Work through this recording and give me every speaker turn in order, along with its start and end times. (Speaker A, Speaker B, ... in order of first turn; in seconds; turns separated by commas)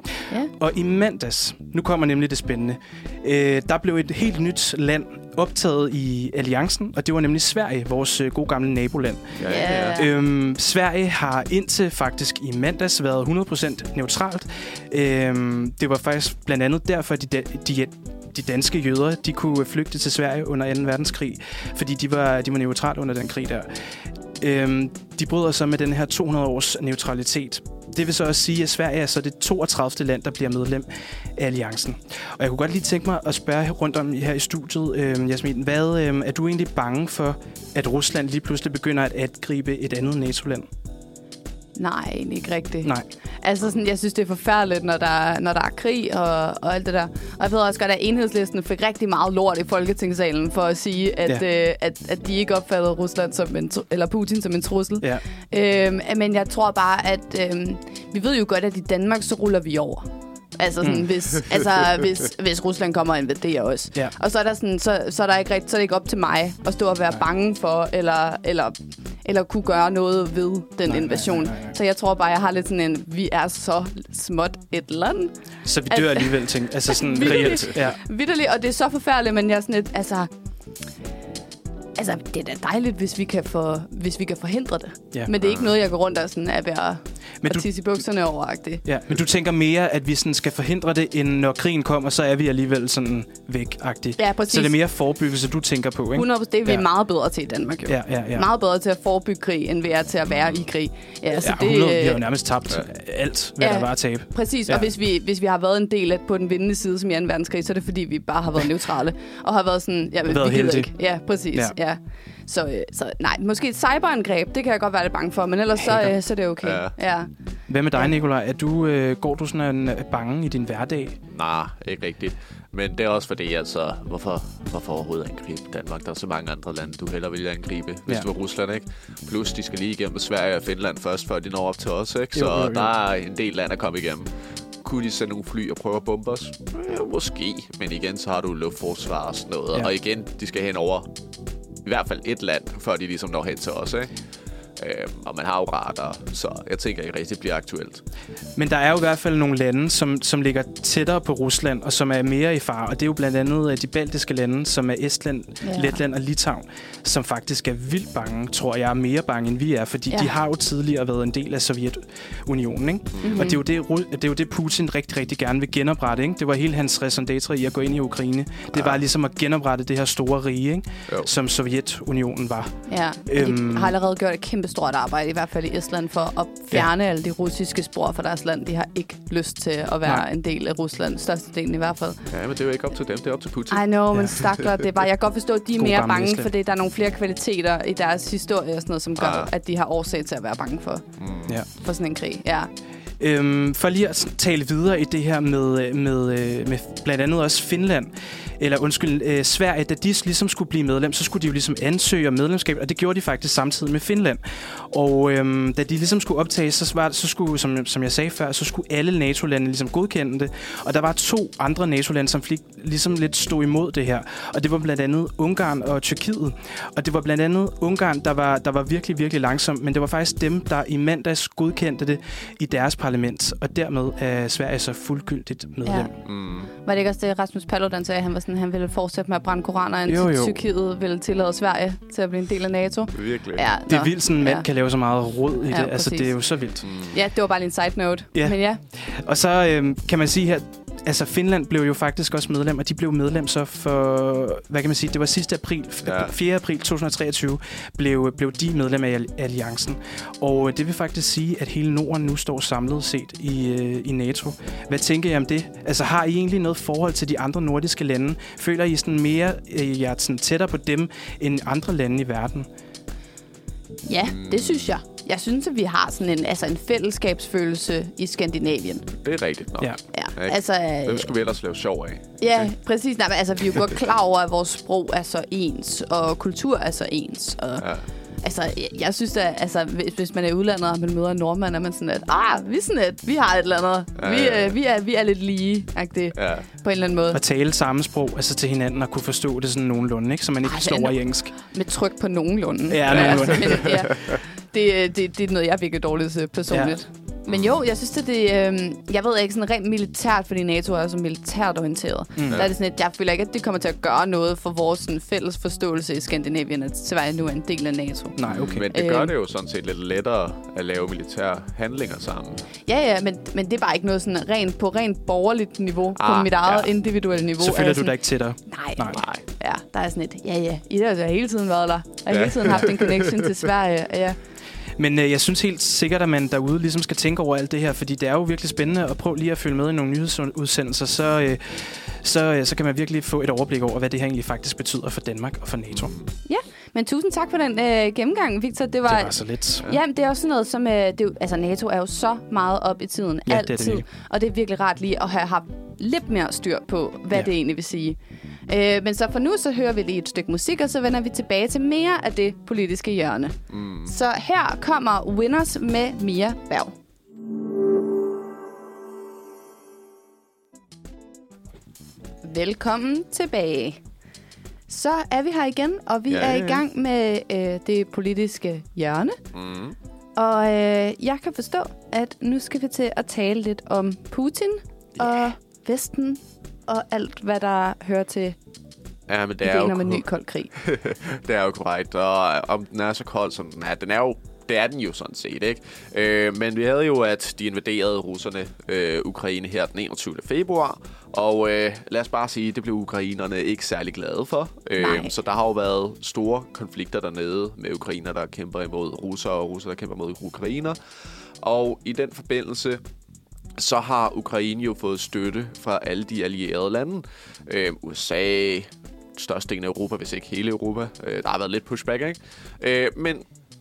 Speaker A: 0.5-23.7, Speaker B: 9.4-10.0, Speaker C: 9.4-10.1, Speaker A: 24.4-40.7, Speaker C: 41.8-75.3, Speaker A: 60.8-61.1, Speaker A: 70.9-71.7, Speaker A: 75.7-78.0, Speaker C: 75.9-80.3, Speaker C: 82.0-88.8, Speaker B: 85.4-85.7, Speaker A: 87.4-87.7, Speaker A: 88.9-96.9, Speaker C: 94.2-94.8, Speaker C: 96.2-102.2, Speaker A: 97.9-98.5, Speaker B: 100.3-100.6, Speaker A: 101.4-104.9, Speaker C: 103.6-117.3, Speaker A: 110.3-110.9, Speaker B: 116.6-116.9, Speaker A: 117.7-121.2, Speaker B: 121.3-134.3, Speaker A: 132.3-132.9, Speaker B: 134.8-141.1, Speaker B: 141.8-144.1, Speaker B: 144.8-148.0, Speaker A: 148.6-173.9, Speaker C: 155.6-156.0, Speaker C: 160.1-160.3, Speaker B: 163.2-163.6, Speaker C: 163.2-163.6, Speaker B: 168.7-169.0, Speaker C: 172.9-182.2, Speaker B: 182.3-183.9, Speaker C: 183.7-191.1, Speaker A: 184.1-184.4, Speaker A: 185.8-186.5, Speaker B: 189.2-189.5, Speaker B: 191.2-191.6, Speaker C: 191.8-192.7, Speaker A: 193.2-226.2, Speaker C: 225.8-226.1, Speaker B: 226.2-226.7, Speaker C: 226.8-234.7, Speaker A: 230.1-230.6, Speaker B: 233.1-233.7, Speaker A: 233.9-236.9, Speaker C: 235.7-236.3, Speaker B: 236.8-237.2, Speaker C: 237.1-238.8, Speaker A: 238.3-262.7, Speaker B: 246.1-246.3, Speaker C: 264.0-269.1, Speaker B: 264.2-264.9, Speaker B: 269.2-272.6, Speaker C: 270.1-271.3, Speaker C: 272.4-277.9, Speaker C: 278.4-287.4, Speaker B: 284.2-284.8, Speaker B: 286.4-286.7, Speaker A: 287.3-291.6, Speaker C: 290.6-308.4, Speaker A: 292.9-294.0, Speaker B: 293.1-294.4, Speaker A: 296.7-297.0, Speaker B: 297.5-297.9, Speaker A: 302.4-302.6, Speaker A: 308.4-308.9, Speaker B: 308.4-312.7, Speaker C: 308.9-309.3, Speaker C: 312.9-318.2, Speaker B: 316.2-316.9, Speaker A: 317.6-319.2, Speaker C: 318.7-324.4, Speaker B: 319.1-319.4, Speaker B: 322.3-323.5, Speaker A: 325.0-336.1, Speaker C: 336.4-356.9, Speaker A: 339.1-339.9, Speaker A: 343.5-344.1, Speaker B: 353.7-354.1, Speaker C: 362.4-364.0, Speaker C: 364.9-369.4, Speaker B: 366.3-366.8, Speaker B: 369.5-370.0, Speaker C: 370.4-378.6, Speaker B: 379.3-380.2, Speaker C: 379.6-380.7, Speaker B: 380.8-401.0, Speaker C: 395.0-395.3, Speaker B: 401.6-403.0, Speaker B: 403.8-413.5